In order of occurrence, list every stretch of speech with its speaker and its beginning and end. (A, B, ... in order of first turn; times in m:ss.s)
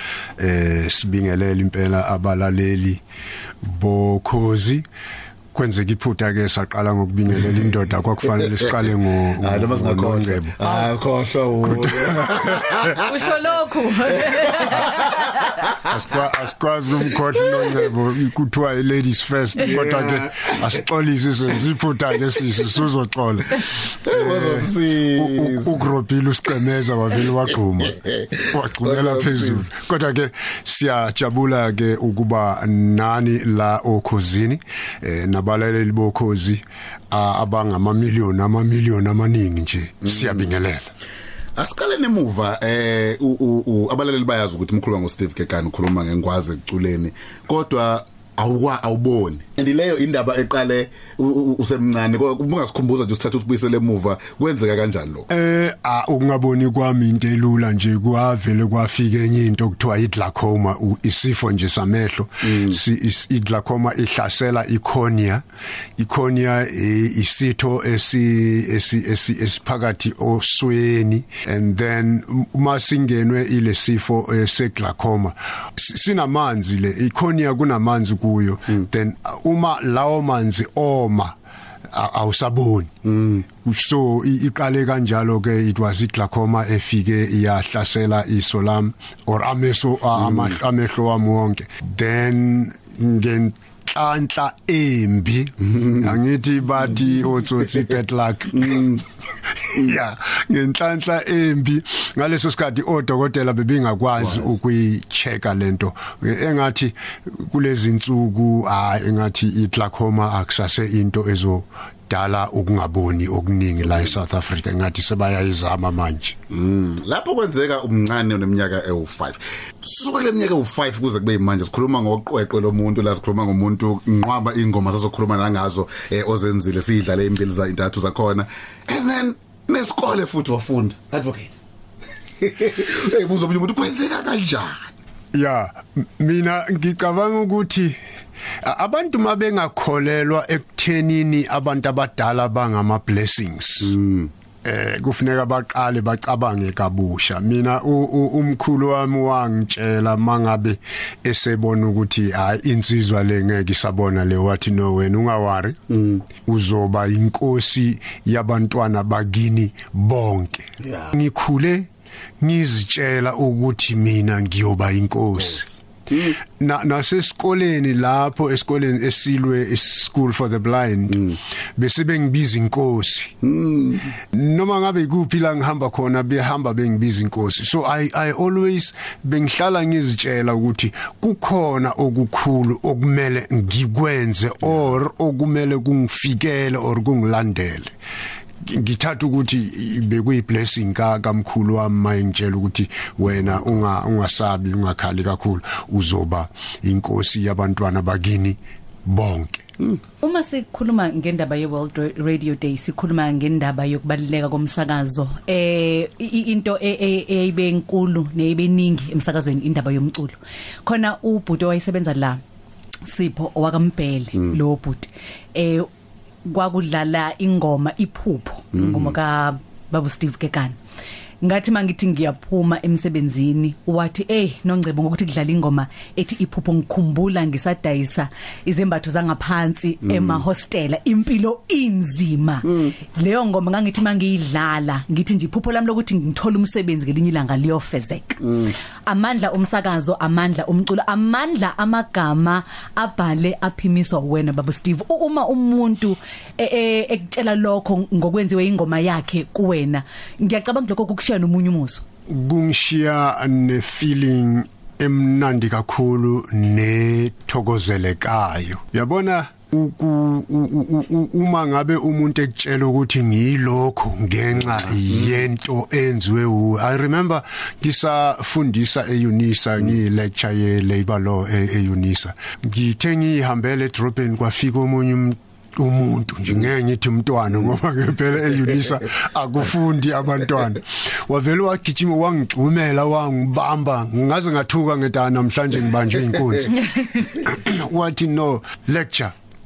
0:00.4-0:03.0 A
0:03.6-0:04.8 A
0:05.5-0:10.9 A
0:09.4-0:13.1 B
0:11.6-0:12.9 A
0:13.0-0:15.4 C
0:14.3-0:15.8 B
0:15.8-0:40.9 A
0:19.7-0:20.6 B
0:24.0-0:25.7 B
0:28.0-0:29.7 B
0:41.6-0:55.3 B
0:55.3-1:05.4 A
1:06.0-1:21.3 A
1:21.9-1:22.9 A
1:23.0-1:23.4 B
1:23.6-1:38.9 A
1:35.7-1:36.0 B
1:38.5-1:39.0 B
1:39.6-1:56.4 A
1:56.5-2:11.6 B
2:12.4-2:14.9 B
2:15.3-2:18.0 A
2:18.6-2:24.0 A
2:23.8-2:24.3 B
2:24.6-2:35.8 A
2:35.9-2:36.2 B
2:36.4-2:41.9 A
2:40.8-2:41.1 B
2:42.4-2:45.7 A
2:46.1-2:46.4 B
2:46.4-2:53.4 A
2:53.4-2:54.1 B
2:54.3-3:07.9 A
3:08.6-3:19.6 A
3:20.2-3:32.4 C
3:33.0-3:35.9 C
3:36.4-3:40.8 C
3:38.7-3:39.1 B
3:41.4-4:12.0 C
3:50.1-3:50.4 B
3:58.4-3:58.7 B
4:12.3-4:49.3 A
4:25.1-4:25.4 B